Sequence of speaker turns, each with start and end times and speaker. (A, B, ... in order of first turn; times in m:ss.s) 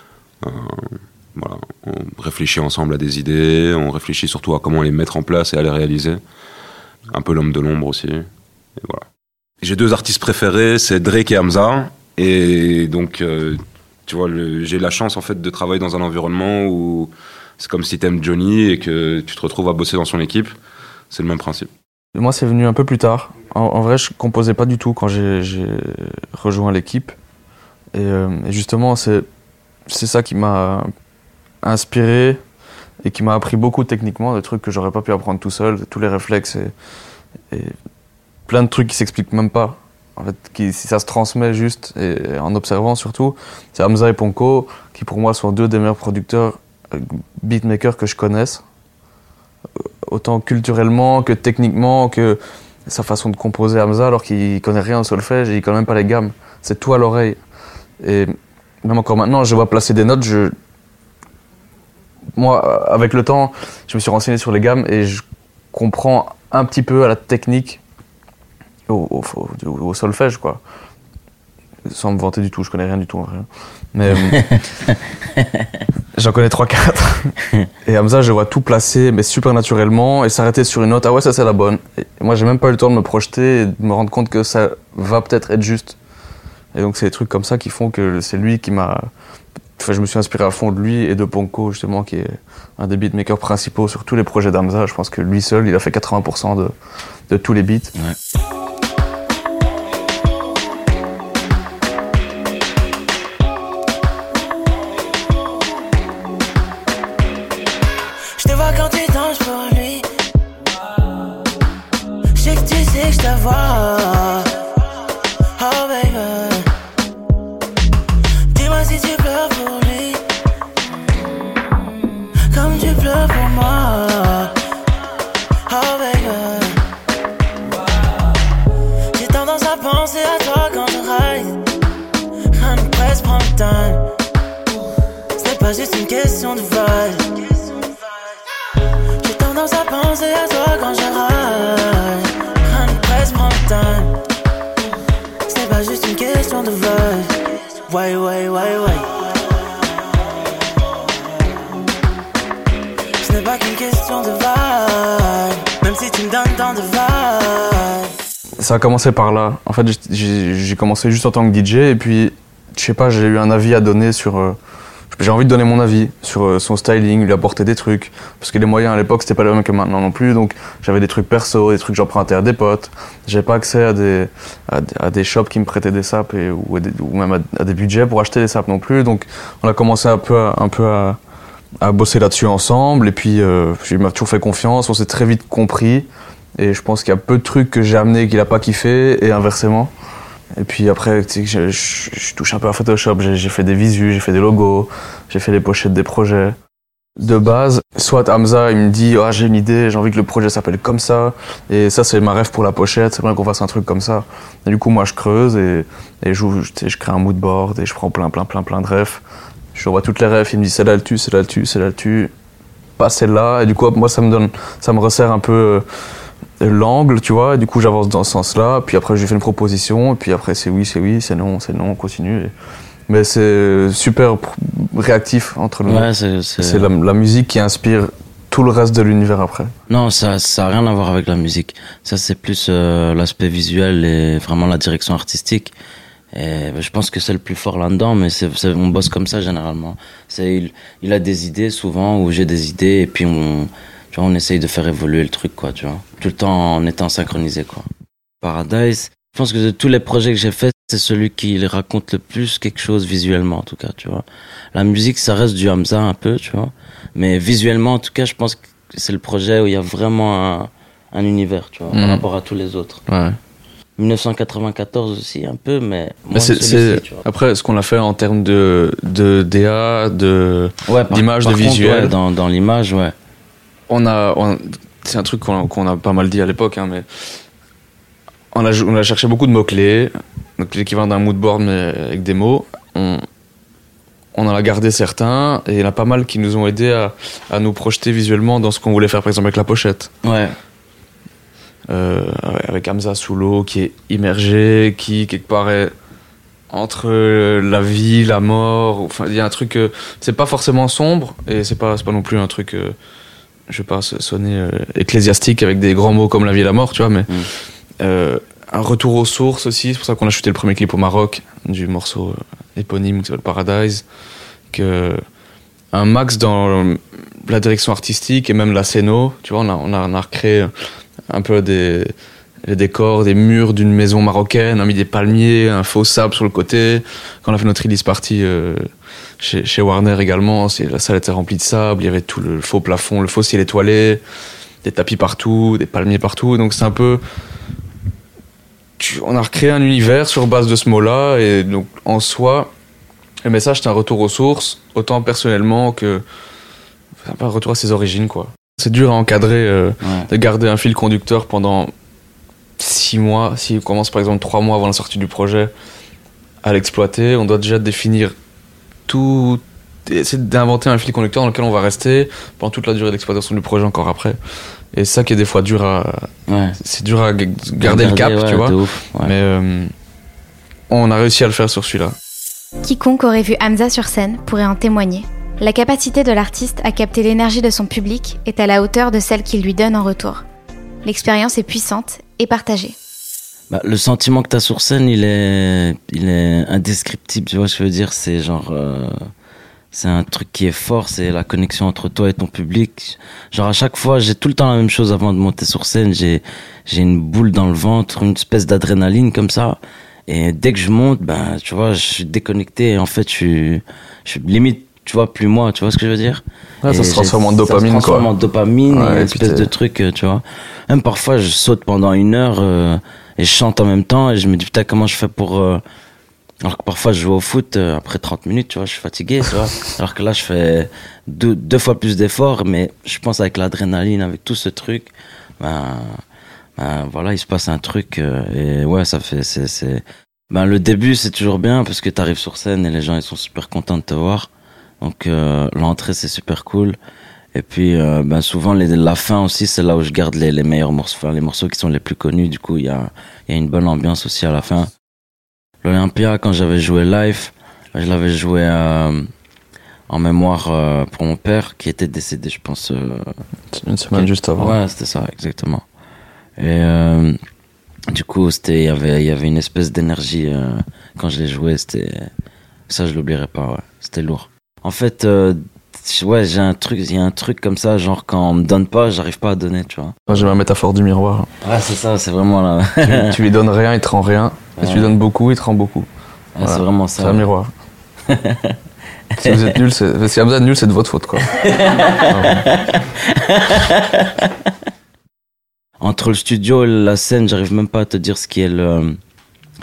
0:00.4-0:06.2 A
0:07.1-0:08.3 A
0:08.8-0:09.0 A
0:09.6-0:20.5 A
0:21.1-0:21.7 A
0:22.1-0:27.1 B
0:27.9-0:29.2 B
0:29.9-0:30.9 B
0:31.6-0:32.4 B
0:33.0-0:36.7 B
0:38.5-0:48.6 B
0:49.8-0:57.4 B
0:58.0-0:58.3 B
0:58.8-1:00.5 B
1:02.3-1:07.8 B
1:08.9-1:10.6 B
1:11.9-1:14.4 B
1:14.2-1:15.8 C
1:16.1-1:26.0 B
1:26.7-1:29.1 B
1:29.8-1:36.7 B
1:37.3-1:37.9 B
1:48.4-1:50.1 D
1:52.3-1:54.6 D
1:55.6-1:56.7 D
1:58.5-2:00.2 D
2:02.5-2:04.5 D
2:05.7-2:06.8 D
2:09.1-2:11.6 D
2:12.5-2:14.0 D
2:15.4-2:17.6 D
2:19.2-2:24.1 D
2:25.5-2:29.2 D
2:33.2-2:38.1 D
2:38.6-2:44.6 B
2:45.1-3:01.2 B
3:01.8-3:09.9 B
3:10.6-3:16.6 B
3:17.2-3:29.2 B
3:29.7-3:32.3 B
3:33.0-3:35.8 B
3:36.6-3:42.5 B
3:43.1-3:49.7 B
3:45.9-3:46.9 C
3:49.9-3:55.7 C
3:56.3-4:07.8 C
4:08.4-4:23.0 C
4:21.9-4:22.2 B
4:23.1-4:23.4 B
4:24.0-4:27.2 C
4:26.3-4:32.2 B
4:30.9-4:33.1 C
4:33.9-4:37.0 B
4:38.5-4:43.2 B
4:44.3-4:50.1 B
4:50.2-4:50.5 C
4:51.9-4:55.9 B
4:56.7-5:03.0 B
5:03.7-5:07.3 B
5:08.0-5:14.0 B
5:14.7-5:15.2 B
5:15.9-5:20.7 B
5:21.3-5:28.9 B
5:29.4-5:34.2 B
5:34.8-5:37.2 B
5:39.0-5:42.7 B
5:43.4-5:46.2 B
5:47.2-5:51.9 B
5:50.0-5:50.3 C
5:52.8-5:55.7 B
5:56.6-5:58.3 B
5:59.1-6:04.4 B
6:04.9-6:06.3 B
6:06.5-6:06.8 C
6:06.8-6:09.9 B
6:07.8-6:09.3 C
6:10.9-6:12.2 B
6:12.8-6:20.4 E
6:21.0-6:23.0 E
6:23.7-6:29.3 C
6:29.9-6:55.8 C
6:46.8-6:48.3 B
6:48.9-6:49.7 B
6:56.6-7:06.2 C
7:06.8-7:14.5 C
7:15.0-7:17.0 C
7:17.5-7:24.9 C
7:25.8-7:29.3 C
7:30.1-7:33.4 C
7:33.7-7:34.8 B
7:34.1-7:35.8 C
7:36.6-7:37.4 C
7:38.1-7:42.3 C
7:42.9-7:50.5 C
7:50.3-7:51.5 B
7:51.6-7:53.4 C
7:53.0-7:56.1 B
7:54.8-7:55.1 C
7:56.5-7:57.4 C
7:56.6-7:57.7 B
7:58.3-7:58.8 C
7:59.3-7:59.8 C
7:59.4-8:01.5 B
8:01.5-8:04.7 C
8:02.2-8:02.6 B
8:06.0-8:09.2 C